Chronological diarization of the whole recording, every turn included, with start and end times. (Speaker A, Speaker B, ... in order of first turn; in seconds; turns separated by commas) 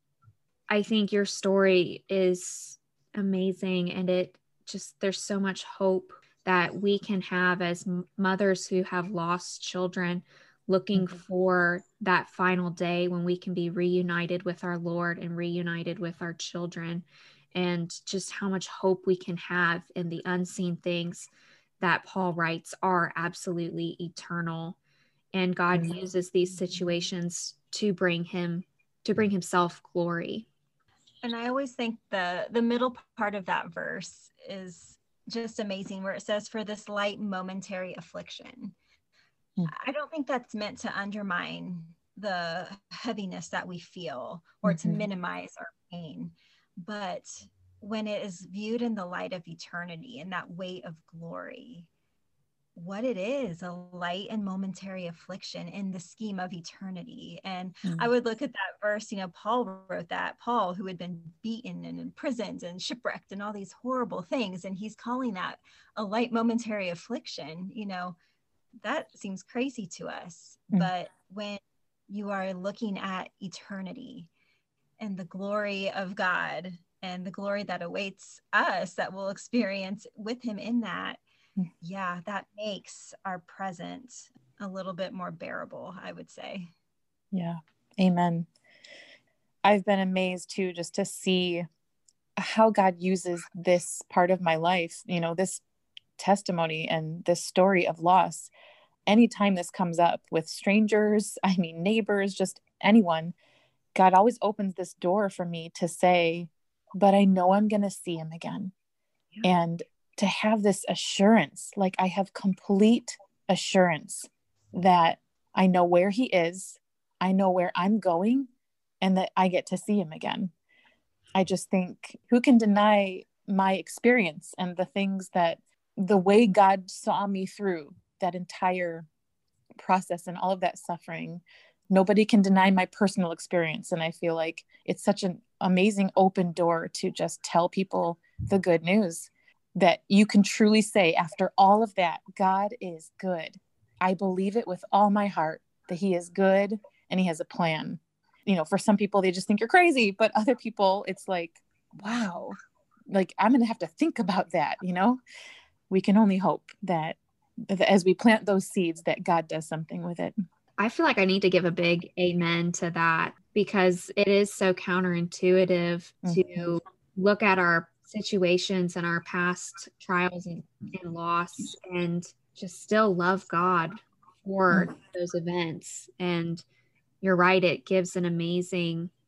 Speaker A: 0.7-24.8, Speaker A: 25.3-30.5, Speaker B: 31.2-38.7, Speaker B: 39.7-51.9, Speaker C: 44.6-45.0, Speaker B: 52.7-68.2, Speaker B: 68.8-74.3, Speaker B: 75.0-81.2, Speaker B: 81.8-86.7, Speaker C: 87.3-88.5, Speaker C: 89.6-91.7, Speaker C: 92.4-95.6, Speaker C: 96.2-98.5, Speaker C: 99.0-103.3, Speaker C: 103.9-108.7, Speaker C: 109.4-118.5, Speaker C: 119.0-120.5, Speaker C: 121.3-129.1, Speaker C: 129.8-152.5, Speaker C: 153.1-155.2, Speaker C: 155.9-157.2, Speaker C: 157.7-160.3, Speaker A: 160.8-176.6, Speaker C: 166.2-166.7, Speaker A: 177.2-179.1